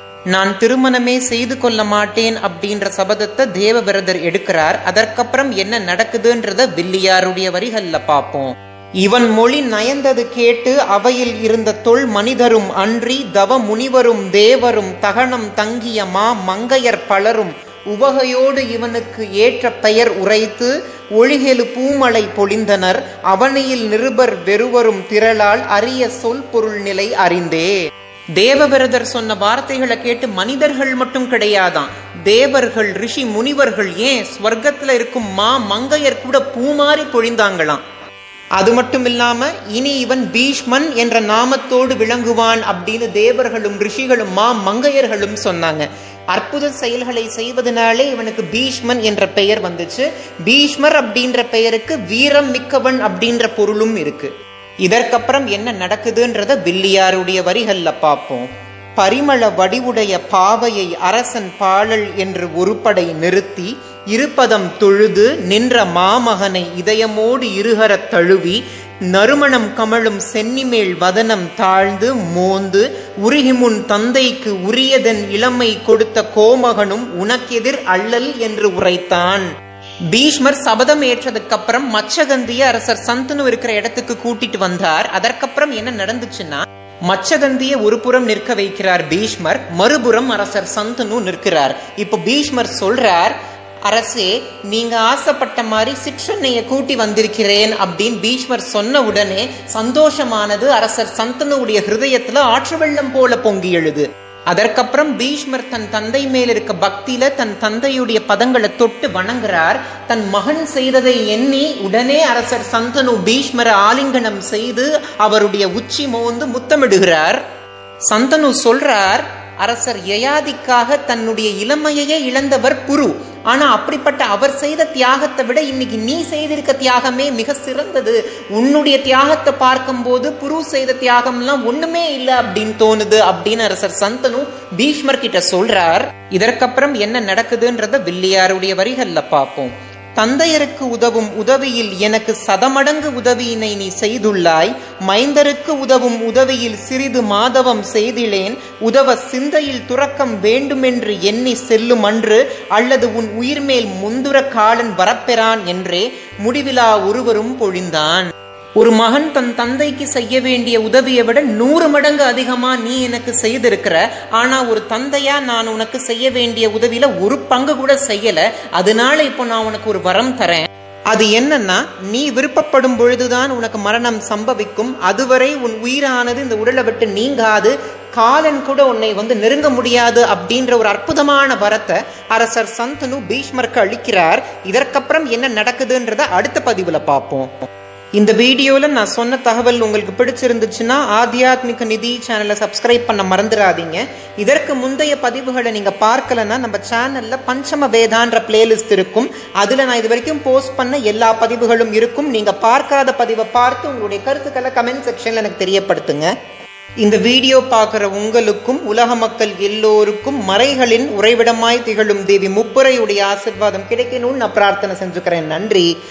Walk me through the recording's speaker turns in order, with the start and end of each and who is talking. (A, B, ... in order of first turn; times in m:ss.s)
0:00.3-0:27.7 A
0:28.4-0:37.8 A
0:38.6-0:54.3 A
0:54.8-1:08.6 A
1:09.1-1:19.5 A
1:20.1-1:33.3 A
1:33.9-1:57.4 A
1:58.1-3:07.5 A
3:08.2-3:26.3 A
3:27.0-3:35.9 A